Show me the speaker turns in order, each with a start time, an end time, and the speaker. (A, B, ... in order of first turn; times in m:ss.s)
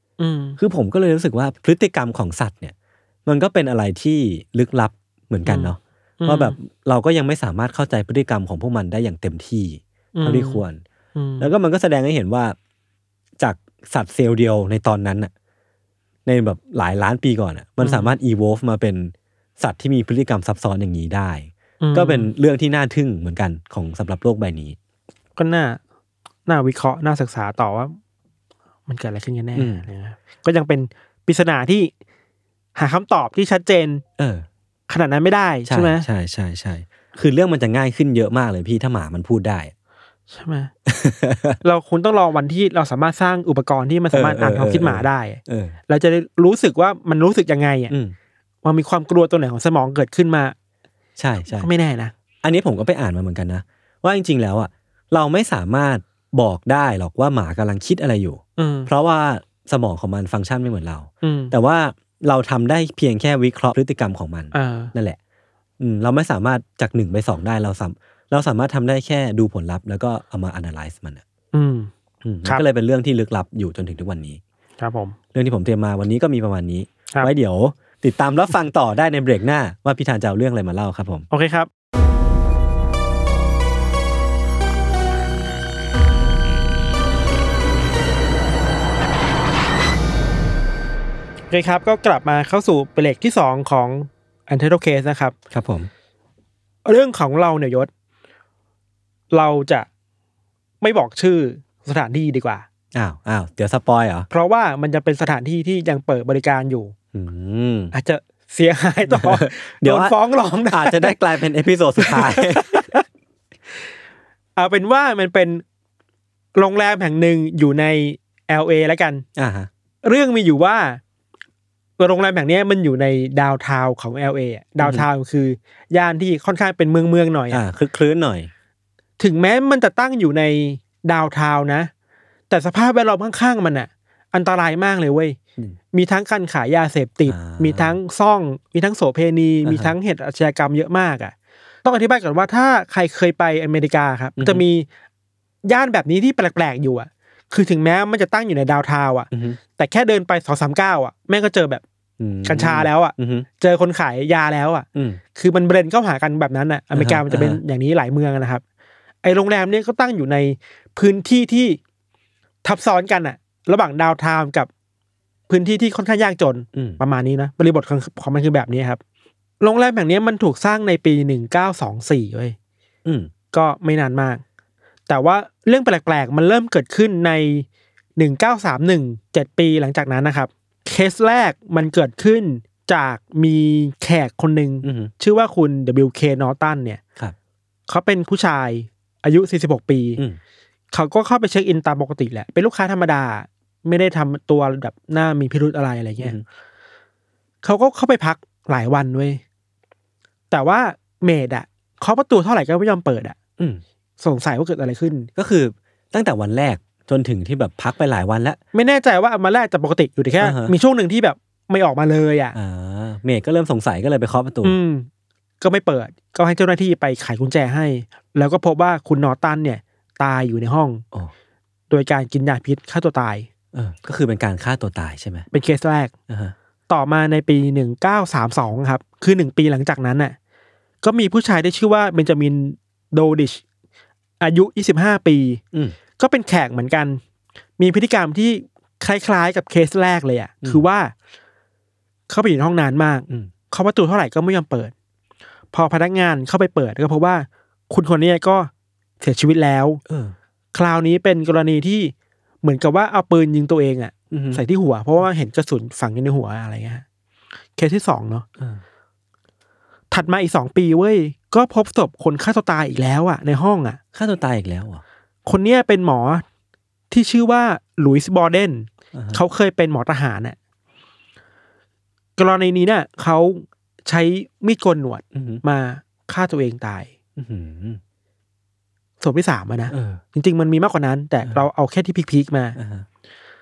0:00.2-0:00.6 A
0:00.6-0:02.7 B
0:03.2-0:10.8 B
0:05.5-0:06.6 A
0:10.1-0:10.6 A
0:11.2-0:11.5 A
0:11.4-0:12.6 B
0:13.4-0:15.3 B
0:16.2-0:24.8 B
0:17.8-0:18.1 A
0:21.8-0:22.3 A
0:25.4-0:25.8 A
0:26.4-0:28.0 A
0:28.9-0:31.9 A
0:29.5-0:29.8 B
0:32.8-0:34.0 A
0:34.2-0:34.5 B
0:34.9-0:36.1 A
0:35.7-0:39.7 B
0:40.3-0:40.7 A
0:40.8-0:41.6 B
0:41.6-0:47.9 A
0:44.1-0:45.8 B
0:47.9-0:48.2 B
0:48.6-0:50.5 A
0:51.2-0:51.7 B
0:51.5-0:52.1 A
0:52.4-1:05.2 B
0:58.6-0:58.9 A
1:01.2-1:01.5 A
1:04.5-1:04.9 A
1:05.8-1:11.2 B
1:11.5-1:11.9 A
1:12.2-1:14.4 B
1:14.8-1:15.2 A
1:15.3-1:21.2 B
1:21.3-1:21.7 A
1:31.5-1:35.3 A
1:35.5-1:35.9 B
1:36.8-1:37.9 A
1:39.3-1:39.9 A
1:40.8-1:42.6 A
1:42.9-1:44.3 B
1:44.3-1:46.9 A
1:47.1-1:47.9 B
1:47.9-1:51.1 A
1:49.1-1:50.2 B
1:50.7-1:53.0 B
1:52.0-1:53.0 A
1:54.6-1:55.6 A
1:56.5-1:59.2 A
1:59.4-1:59.7 B
2:00.0-2:01.0 A
2:02.0-2:07.6 A
2:04.8-2:05.1 B
2:07.5-2:08.5 B
2:09.2-2:11.9 A
2:12.5-2:15.4 A
2:15.9-2:24.9 A
2:17.3-2:18.0 B
2:19.6-2:19.9 B
2:24.4-2:24.6 B
2:25.6-2:31.8 A
2:29.3-2:29.6 B
2:32.2-2:33.5 B
2:32.4-2:38.6 A
2:34.9-2:35.2 B
2:36.9-2:37.6 B
2:39.2-2:41.8 A
2:42.6-2:44.7 A
2:45.5-2:49.0 A
2:46.7-2:47.0 B
2:49.6-2:52.6 A
2:53.0-2:53.3 B
2:53.5-2:54.4 A
2:55.1-2:57.6 A
2:58.2-3:07.0 A
3:04.8-3:05.1 B
3:07.9-3:10.2 A
3:10.9-3:16.4 A
3:17.6-3:19.4 A
3:20.5-3:23.4 A
3:24.2-3:25.3 A
3:25.4-3:28.6 B
3:28.7-3:32.5 A
3:30.4-3:30.7 B
3:32.5-3:34.8 B
3:34.6-3:35.1 A
3:35.6-3:41.0 A
3:41.9-3:43.5 A
3:43.7-3:45.5 B
3:45.5-3:46.1 A
3:46.3-3:46.5 B
3:46.9-3:50.3 A
3:51.0-3:53.6 A
3:54.4-3:55.6 A
3:56.2-3:57.2 A
3:57.8-4:01.1 A
4:02.3-4:04.9 A
4:05.7-4:10.0 A
4:10.0-4:10.3 B
4:10.7-4:17.0 A
4:14.3-4:14.6 B
4:17.8-4:18.4 A
4:20.1-4:24.0 A
4:24.1-4:25.0 B
4:25.4-4:26.4 A
4:27.1-4:30.6 A
4:29.1-4:29.4 B
4:32.4-4:37.1 A
4:35.3-4:35.6 B
4:37.4-4:38.0 B
4:39.2-4:42.8 A
4:39.9-4:40.2 B
4:42.8-4:43.0 B